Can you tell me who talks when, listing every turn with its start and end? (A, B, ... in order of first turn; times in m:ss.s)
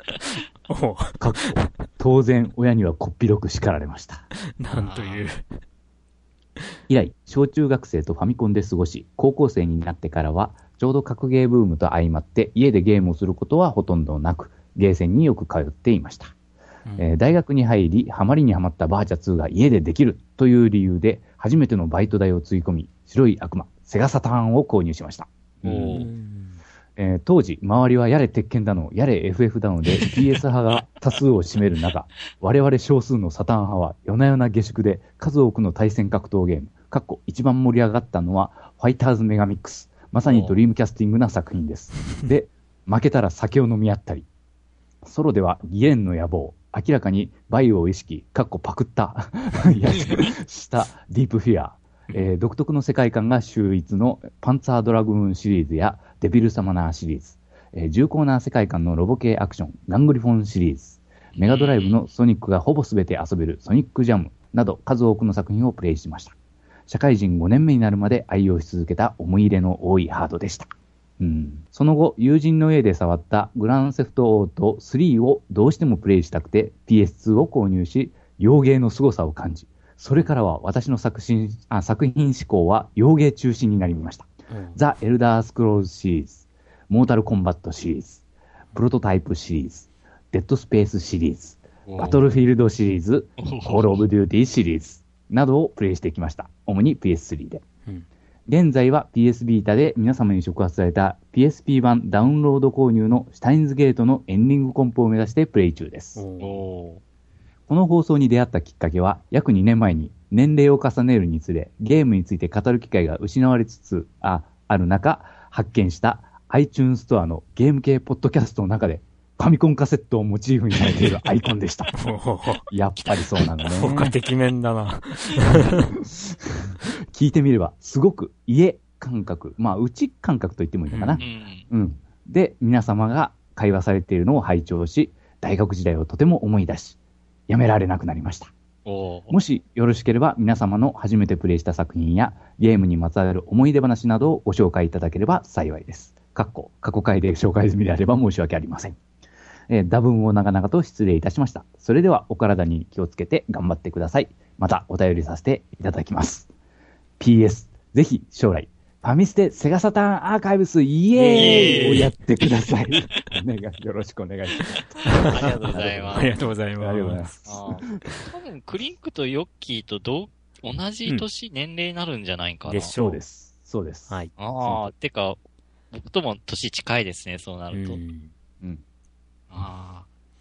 0:00.4-0:01.7 A
0:01.2-0:04.3 B
0:04.6-0:05.4 A
0:04.7-0:05.3 C
0:06.9-0:16.3 B
0:17.0-0:26.0 B
0:25.6-0:26.1 C
0:25.8-0:26.6 A
0:27.0-0:44.3 B
0:40.2-0:40.6 C
0:45.0-1:06.4 B
0:50.0-0:50.3 C
1:01.3-1:02.0 C
1:06.9-1:37.6 B
1:24.5-1:24.8 A
1:31.9-1:32.2 C
1:33.4-1:34.0 C
1:38.5-1:46.2 B
1:46.2-1:46.6 A
1:46.4-1:47.0 C
1:47.7-2:01.9 B
2:02.0-2:02.7 A
2:02.7-2:04.2 B
2:03.7-2:06.0 A
2:06.1-2:18.5 B
2:10.9-2:11.2 A
2:11.2-2:11.7 C
2:18.8-2:19.4 C
2:19.3-2:29.0 B
2:29.7-2:36.5 B
2:37.2-2:48.0 B
2:41.1-2:42.2 A
2:41.3-2:42.1 C
2:45.0-2:45.5 A
2:45.2-2:46.4 C
2:46.1-2:47.4 A
2:47.4-2:52.9 C
2:52.7-2:53.2 A
2:53.0-2:54.9 B
2:54.4-2:55.4 C
2:55.9-2:58.0 C
2:57.7-2:58.3 A
2:59.5-3:00.1 C